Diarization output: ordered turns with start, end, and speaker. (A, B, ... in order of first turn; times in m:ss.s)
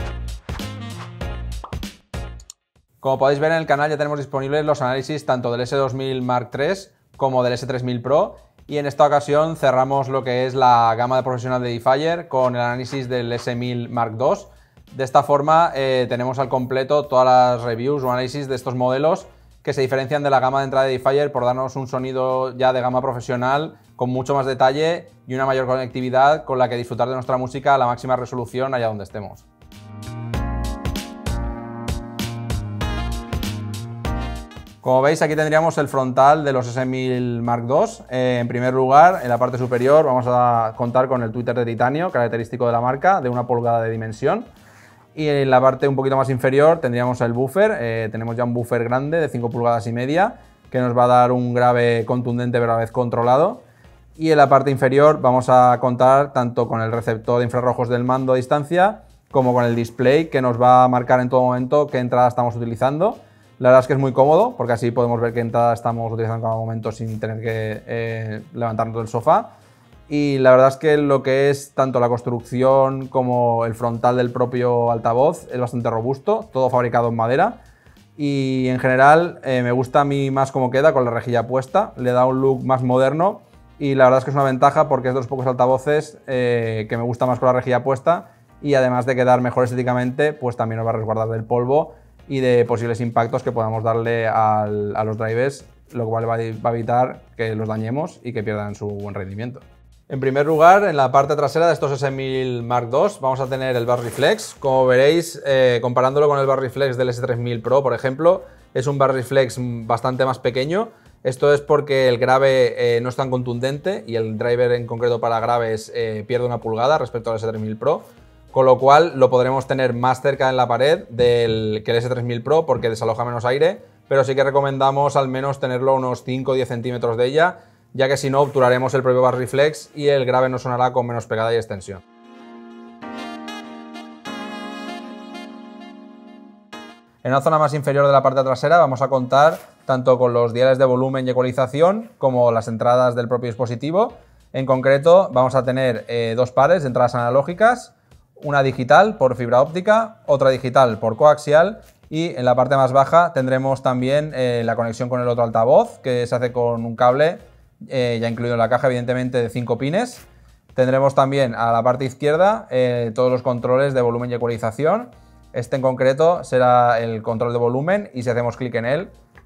0:03.0-0:29.5 A
0:34.8-0:44.5 A
0:45.1-0:53.6 A
0:54.2-1:09.5 A
1:10.1-1:17.6 A
1:18.2-2:12.0 A
2:17.2-2:49.1 A